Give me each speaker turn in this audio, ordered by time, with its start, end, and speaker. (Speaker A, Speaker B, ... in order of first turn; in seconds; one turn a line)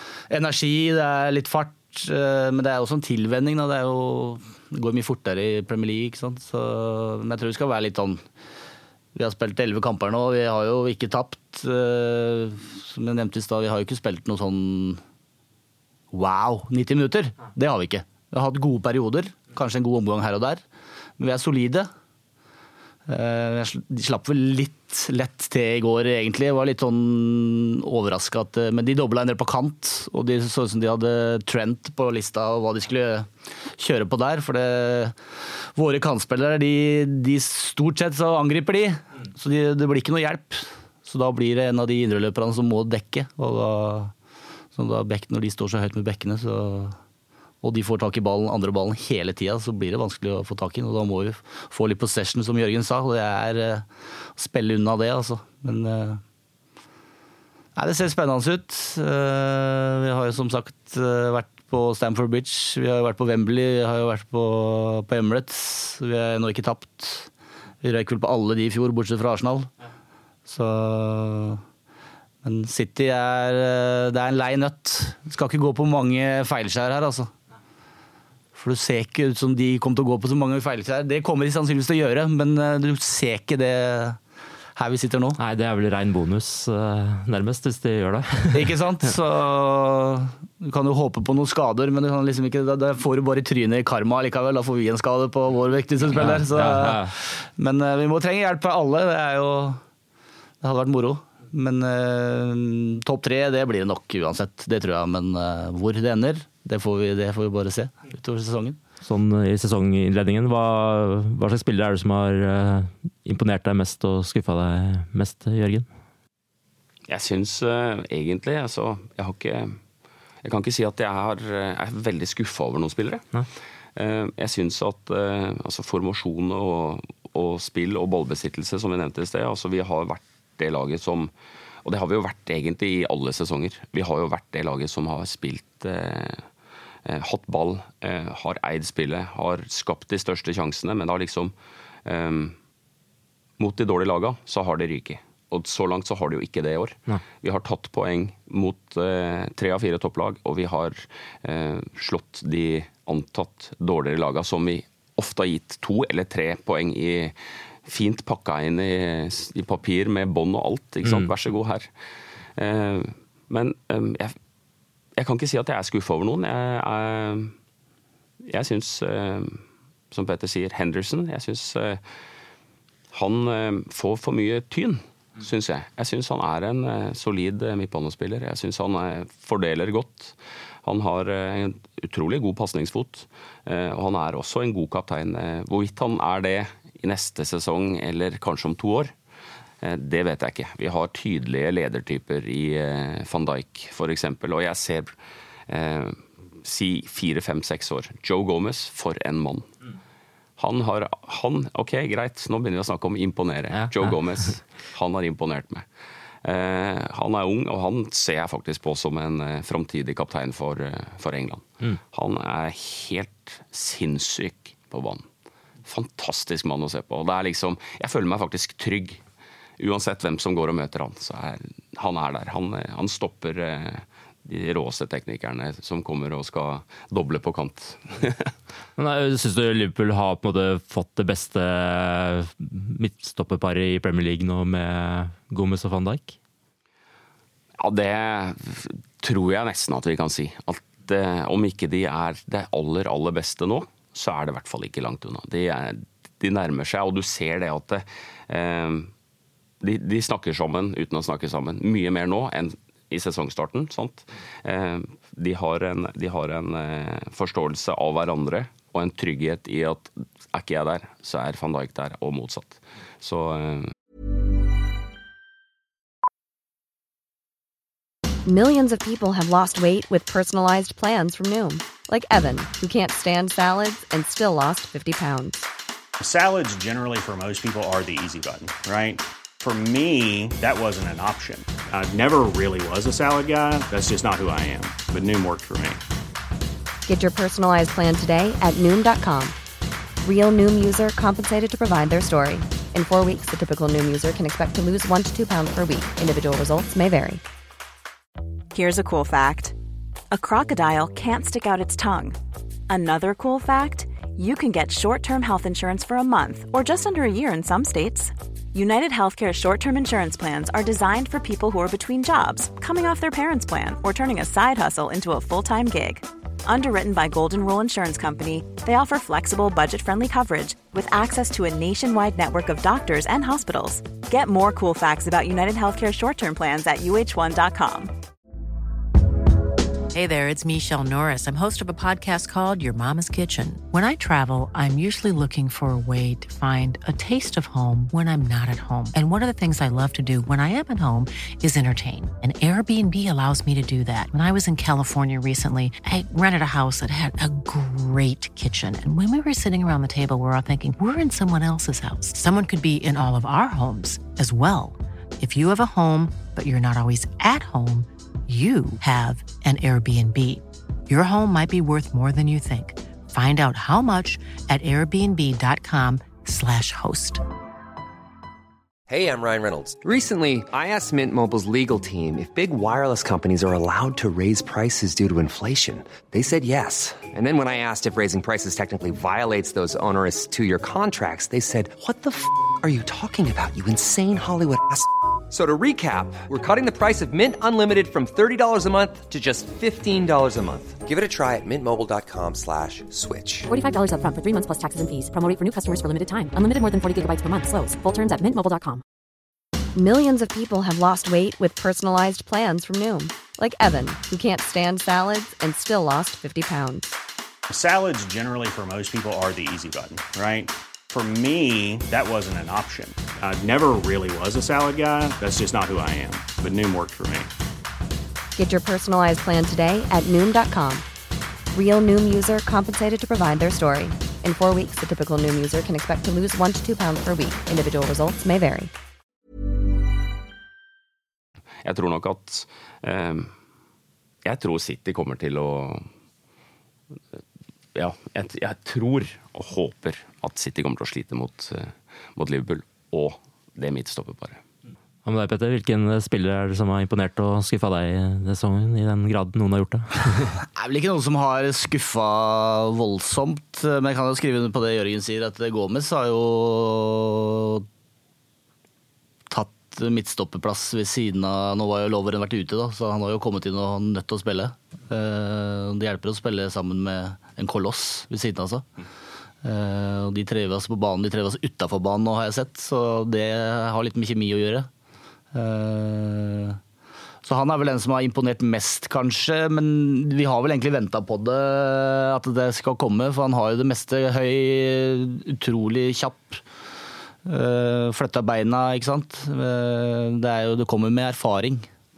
Speaker A: 0.3-8.2
Speaker A: 9.1-15.0
Speaker A: 16.1-20.6
Speaker A: 21.2-21.9
Speaker A: 23.1-35.1
Speaker A: 35.7-44.1
Speaker A: 44.7-47.0
Speaker A: 47.6-56.2
Speaker A: 57.8-67.3
Speaker A: 67.8-69.7
Speaker A: 70.5-71.6
Speaker A: 72.4-77.3
Speaker A: 78.5-84.2
Speaker A: 84.8-85.4
Speaker B: 85.4-88.7
Speaker A: 88.5-99.8
Speaker B: 96.1-97.1
Speaker A: 100.6-108.8
Speaker B: 109.0-115.9
Speaker C: 117.1-119.8
Speaker C: 120.4-123.2
Speaker C: 124.0-131.3
Speaker C: 131.8-136.5
Speaker C: 137.1-141.5
Speaker C: 142.1-142.6
Speaker C: 143.6-161.9
Speaker B: 161.0-161.3
Speaker C: 162.6-164.3
Speaker C: 165.2-167.5
Speaker C: 168.4-172.0
Speaker C: 173.1-189.1
Speaker C: 189.8-195.2
Speaker C: 195.7-199.7
Speaker C: 200.6-205.8
Speaker B: 203.7-204.2
Speaker C: 206.4-215.2
Speaker C: 215.8-219.2
Speaker C: 219.8-228.5
Speaker B: 229.0-236.3
Speaker C: 237.8-249.1
Speaker C: 249.8-263.9
Speaker D: 268.4-275.6
Speaker E: 276.2-286.0
Speaker D: 287.1-289.6
Speaker D: 290.2-297.4
Speaker F: 298.7-299.7
Speaker F: 300.3-302.4
Speaker F: 302.9-328.1
Speaker G: 330.1-367.4
Speaker H: 369.1-393.7
Speaker I: 393.7-399.0
Speaker D: 399.9-407.1
Speaker E: 407.7-417.5
Speaker D: 418.6-421.1
Speaker D: 421.7-428.9
Speaker C: 431.8-433.5
Speaker C: 434.4-436.1
Speaker C: 437.9-444.6
Speaker B: 445.2-450.6
Speaker A: 450.6-457.9
Speaker A: 459.5-468.8
Speaker A: 469.6-474.9
Speaker A: 475.5-476.8
Speaker A: 477.4-486.6
Speaker A: 487.4-491.9